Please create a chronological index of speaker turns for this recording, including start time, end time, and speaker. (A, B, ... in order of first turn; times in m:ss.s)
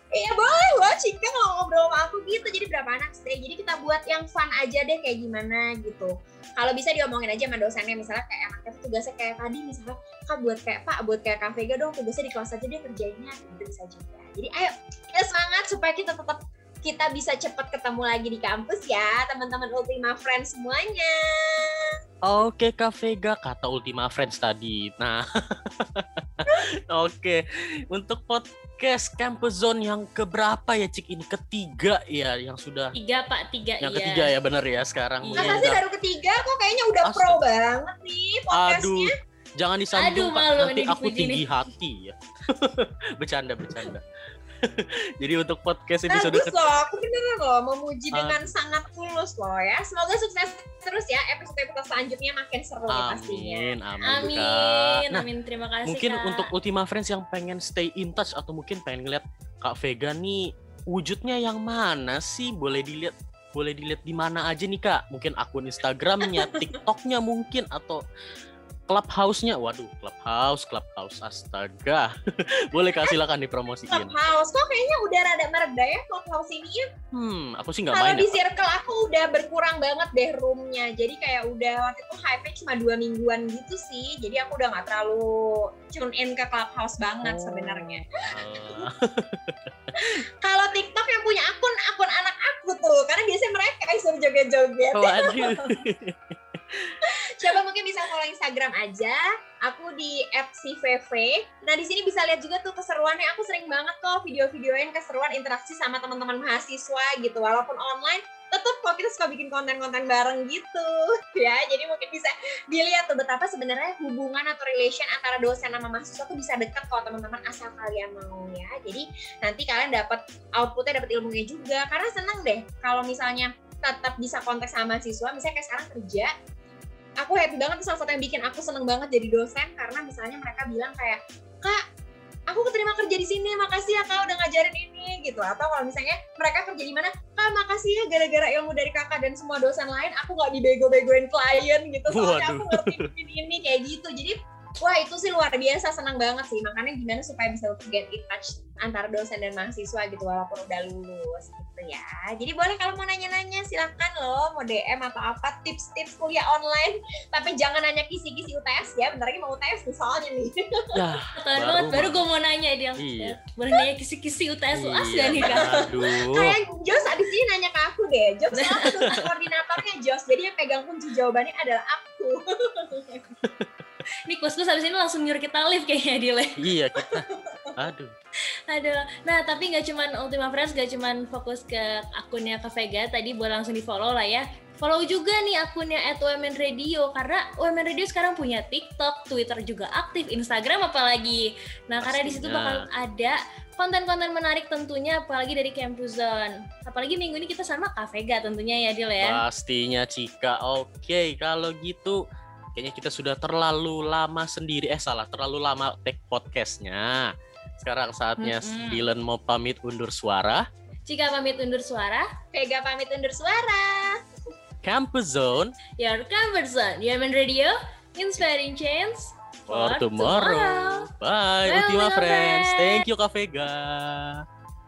0:00.1-0:21.9 A
0:22.2-0:33.0 B
0:33.0-0:34.3 C
0:33.8-0:35.8 B
0:35.3-0:35.7 C
0:35.4-0:39.1 A
0:37.0-0:37.4 B
0:38.5-0:44.1 B
0:40.0-0:41.4 C
0:44.6-0:46.6 B
0:46.1-0:54.3 A
0:48.1-0:48.5 B
0:52.9-0:55.3 B
0:54.1-0:56.5 C
0:55.9-1:08.0 B
1:06.4-1:06.7 A
1:08.9-1:14.2 B
1:12.8-1:13.2 A
1:13.9-1:16.9 A
1:17.1-1:18.4 B
1:17.9-1:28.9 A
1:27.2-1:30.1 B
1:30.0-1:35.8 A
1:34.9-1:37.0 B
1:37.0-2:06.3 A
2:07.2-2:11.8 A
2:12.5-2:41.0 A
2:22.1-2:23.1 B
2:40.9-2:42.2 B
2:41.4-2:45.8 C
2:43.0-2:43.4 B
2:44.7-2:46.6 B
2:45.4-2:53.2 A
2:48.6-2:48.9 C
2:53.4-2:53.7 B
2:54.3-2:56.6 C
2:56.6-2:58.1 B
2:57.0-2:57.8 A
2:58.7-3:19.4 C
3:12.0-3:12.9 B
3:19.2-3:22.2 B
3:22.8-3:30.6 B
3:28.4-3:29.0 C
3:31.1-3:32.3 C
3:32.5-3:34.2 A
3:34.8-3:35.8 B
3:36.0-3:41.1 C
3:39.7-3:44.4 B
3:41.7-3:43.0 A